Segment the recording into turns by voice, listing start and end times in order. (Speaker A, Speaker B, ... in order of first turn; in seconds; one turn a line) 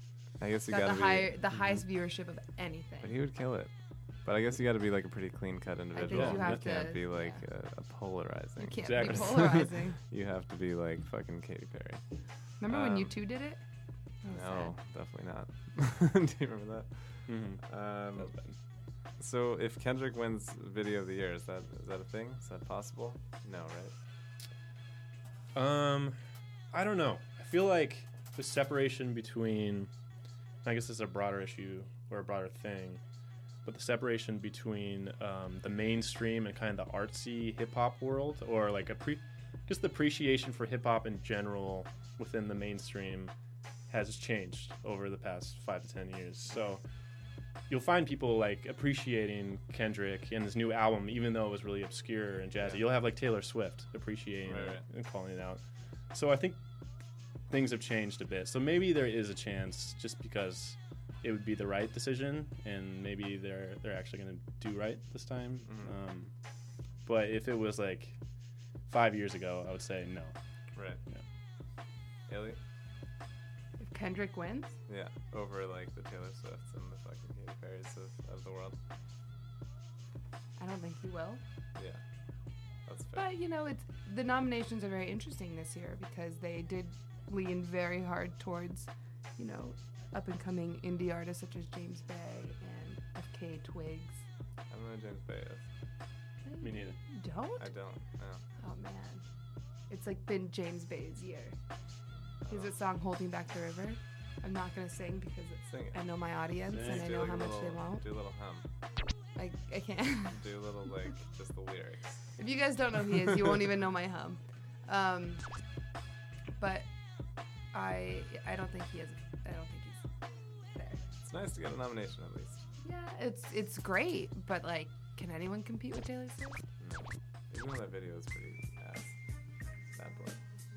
Speaker A: 0.4-1.4
Speaker B: 0.7-3.1
Speaker A: 3.0-3.7
Speaker A: 4.2-12.0
Speaker B: 5.9-7.4
Speaker C: 6.0-6.9
Speaker B: 8.6-10.0
Speaker C: 8.8-9.7
Speaker B: 12.6-13.6
Speaker A: 12.7-13.1
Speaker B: 14.2-14.7
Speaker A: 14.3-18.3
Speaker C: 17.3-17.6
Speaker C: 18.2-18.6
Speaker A: 19.2-23.9
Speaker C: 25.6-26.2
Speaker C: 26.7-29.9
Speaker C: 30.6-33.0
Speaker C: 33.6-43.3
Speaker C: 43.9-46.8
Speaker C: 47.7-55.6
Speaker A: 54.5-54.8
Speaker C: 56.1-56.6
Speaker C: 57.5-66.3
Speaker A: 65.7-66.0
Speaker C: 67.0-68.2
Speaker C: 68.9-70.3
Speaker A: 70.8-71.0
Speaker A: 72.3-72.6
Speaker B: 73.8-74.8
Speaker A: 74.9-78.8
Speaker B: 80.6-81.4
Speaker A: 81.8-82.0
Speaker A: 82.9-83.3
Speaker B: 83.2-94.2
Speaker A: 94.7-95.7
Speaker B: 96.4-97.7
Speaker C: 96.6-97.0
Speaker A: 97.6-98.4
Speaker B: 98.6-99.2
Speaker B: 99.9-101.6
Speaker A: 102.4-102.8
Speaker B: 102.5-108.0
Speaker A: 105.7-106.0
Speaker C: 106.7-107.1
Speaker A: 106.7-108.7
Speaker B: 109.4-110.4
Speaker A: 110.3-112.3
Speaker B: 112.4-115.4
Speaker B: 116.6-116.9
Speaker B: 117.7-120.0
Speaker B: 120.7-121.0
Speaker A: 121.2-122.6
Speaker B: 122.8-126.6
Speaker A: 126.8-129.2
Speaker A: 129.9-130.4